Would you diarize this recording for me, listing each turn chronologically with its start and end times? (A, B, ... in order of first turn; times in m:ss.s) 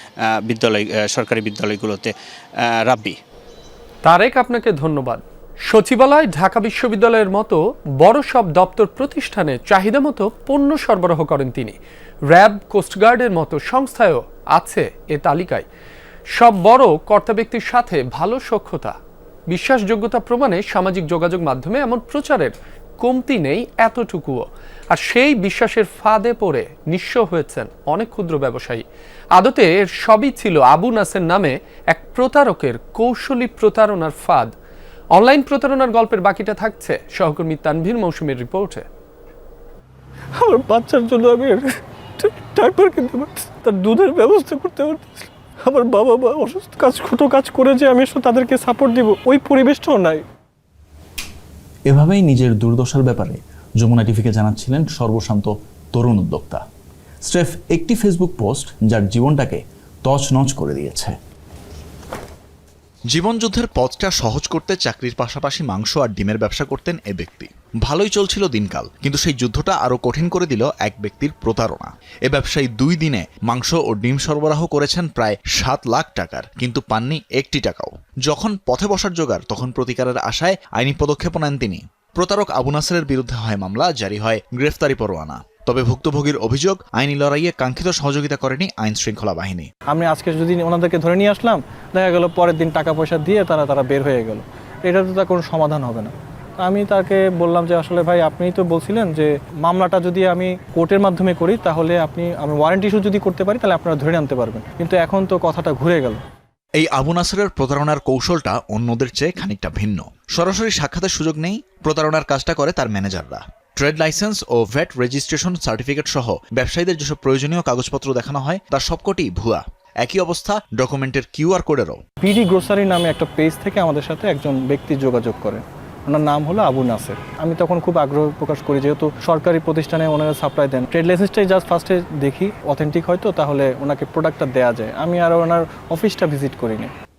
0:00.4-0:02.1 A
0:02.9-0:03.2 A
0:04.0-0:11.8 B
0:12.3-0:15.6 B
0:16.3-0:19.0 B
0:19.5-0:28.8 B
0:29.4-0:34.5 B
0:35.1-0:38.8 B
0:40.4-0:41.6 C
0:42.2-0:50.2 C
0:51.9-0:56.6 D
0:57.2-1:01.2 D
1:03.1-1:29.7 E
1:29.9-1:46.2 C
1:46.8-2:02.0 E
2:02.2-2:16.9 C